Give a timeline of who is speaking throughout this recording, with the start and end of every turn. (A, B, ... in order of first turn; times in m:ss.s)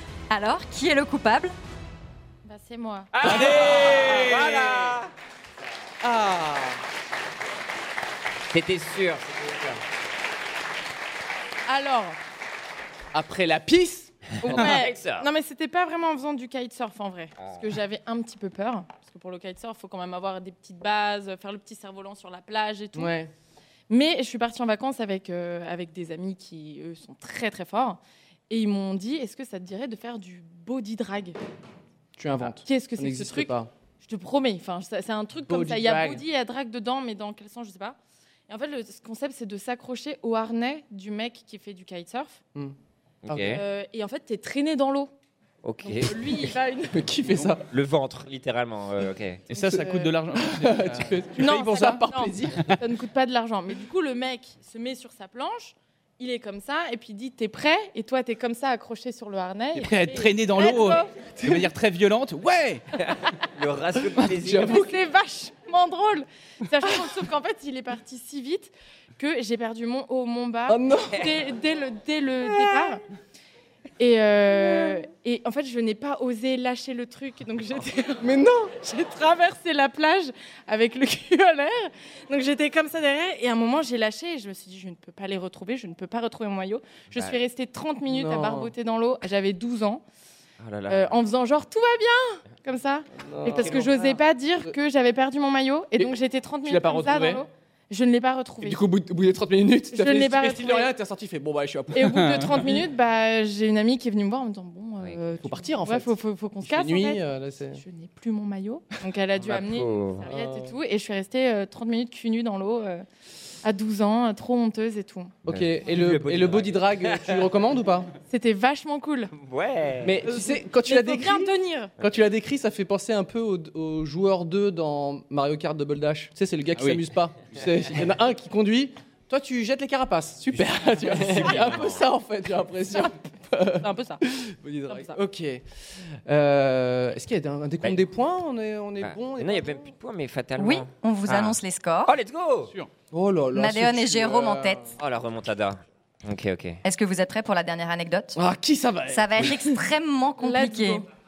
0:00.3-0:01.5 A
0:02.4-0:03.2 B
0:03.1-0:05.1 C
0:03.2-0:04.7 D
0:06.0-0:06.8 E
0:08.5-0:09.8 C
0:11.7-0:12.2 B
0:13.1-0:14.6 E
0:14.4-0:23.1 B
0:14.5-0:15.3 C
0:17.4-0:17.6 C
0:22.9-0:23.3 E
0:23.9-0:31.4 B
0:32.2-0:33.7 E
0:32.4-0:38.0 B
0:35.5-0:36.2 E
0:38.5-0:42.4 B
0:43.2-0:43.6 C
0:43.3-0:43.6 E
0:43.4-0:45.1 B
0:45.6-0:46.2 C
0:45.8-0:47.1 B
0:46.9-0:47.7 E
0:47.2-0:47.5 D
0:47.7-0:49.4 C
0:49.5-0:52.0 D
0:49.5-0:52.8 E
0:51.3-1:01.1 B
0:52.5-0:52.8 D
0:59.7-1:02.8 D
1:01.2-1:01.7 E
1:03.0-1:04.8 C
1:04.2-1:04.9 E
1:04.6-1:13.0 B
1:06.8-1:07.1 E
1:10.7-1:11.3 E
1:14.0-1:30.0 B
1:18.2-1:18.7 E
1:28.1-1:28.7 E
1:30.6-1:31.1 C
1:30.9-1:38.9 B
1:33.2-1:34.7 E
1:36.6-1:37.4 E
1:38.6-1:42.1 E
1:39.9-1:40.9 B
1:41.9-1:53.0 B
1:42.0-1:42.8 D
1:45.4-1:47.8 E
1:49.4-1:50.2 C
1:50.2-1:50.7 E
1:53.6-1:55.4 B
1:55.4-1:58.1 E
1:55.5-1:57.5 C
1:58.3-1:59.3 B
1:59.3-2:00.2 C
2:00.0-2:15.6 E
2:00.3-2:01.9 B
2:06.7-2:07.0 D
2:11.0-2:12.1 C
2:13.8-2:14.2 B
2:14.9-2:15.2 B
2:16.2-2:19.8 E
2:19.0-2:22.7 C
2:20.6-2:22.1 A
2:23.1-2:25.0 E
2:23.5-2:24.8 A
2:25.0-2:26.8 C
2:26.8-2:28.4 A
2:28.4-2:29.7 E
2:29.1-2:31.0 A
2:30.4-2:31.0 B